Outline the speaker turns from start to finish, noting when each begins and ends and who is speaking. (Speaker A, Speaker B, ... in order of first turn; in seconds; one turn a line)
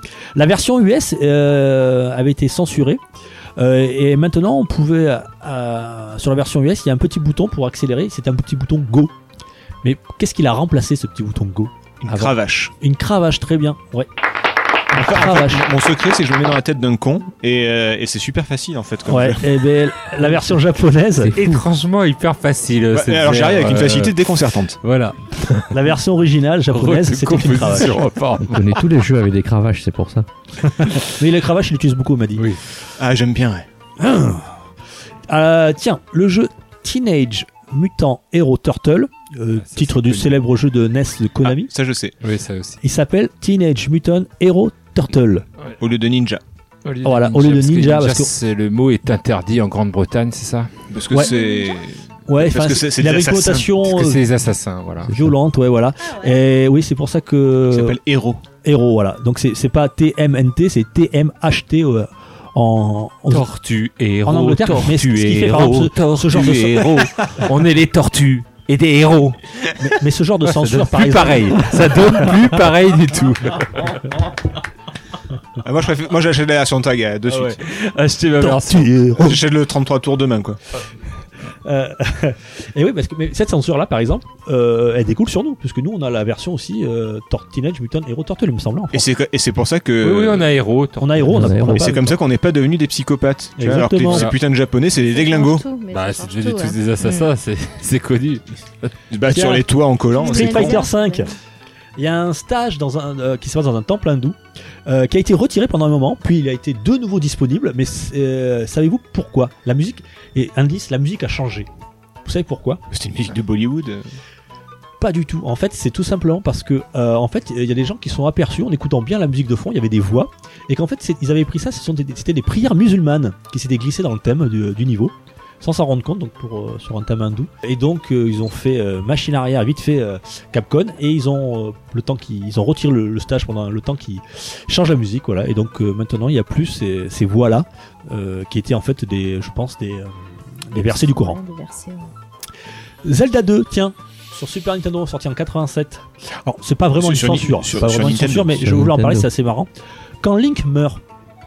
Speaker A: 0.4-3.0
Speaker A: 3.6-9.1
Speaker A: 9.8-14.1
Speaker B: 12.0-12.7
Speaker A: 14.9-15.7
Speaker B: 14.9-19.5
Speaker A: 19.1-21.6
Speaker C: 21.2-24.2
Speaker B: 22.9-24.8
Speaker C: 24.8-25.8
Speaker A: 25.7-28.0
Speaker C: 26.7-28.8
Speaker D: 28.4-30.3
Speaker A: 31.1-32.5
Speaker B: 33.0-33.6
Speaker A: 34.0-34.5
Speaker A: 35.3-41.7
Speaker C: 39.6-40.4
Speaker B: 41.4-42.2
Speaker C: 42.2-42.8
Speaker A: 42.8-45.5
Speaker B: 45.8-46.4
Speaker C: 46.9-50.7
Speaker A: 47.0-48.3
Speaker B: 50.9-53.7
Speaker A: 51.1-51.4
Speaker E: 51.3-51.6
Speaker A: 52.3-54.2
Speaker C: 53.9-55.3
Speaker A: 55.1-58.0
Speaker B: 57.7-58.4
Speaker A: 58.6-63.5
Speaker C: 63.3-69.9
Speaker A: 64.2-67.4
Speaker A: 69.8-72.4
Speaker C: 70.5-74.1
Speaker B: 75.6-77.6
Speaker C: 77.4-79.0
Speaker A: 78.4-79.4
Speaker B: 79.2-80.6
Speaker A: 81.7-89.1
Speaker B: 88.9-90.5
Speaker C: 90.0-91.6
Speaker A: 91.0-92.2
Speaker D: 91.3-91.9
Speaker B: 91.6-95.7
Speaker A: 93.6-94.3
Speaker C: 94.1-94.4
Speaker E: 95.1-97.3
Speaker C: 95.9-98.9
Speaker B: 99.1-100.8
Speaker A: 99.3-99.7
Speaker E: 100.2-101.3
Speaker A: 100.3-101.3
Speaker A: 102.0-111.7
Speaker A: 112.2-112.8
Speaker B: 112.9-114.1
Speaker A: 115.0-141.4
Speaker E: 140.8-142.1
Speaker A: 143.1-149.7
Speaker B: 147.0-148.7
Speaker D: 148.6-149.3
Speaker A: 150.2-151.0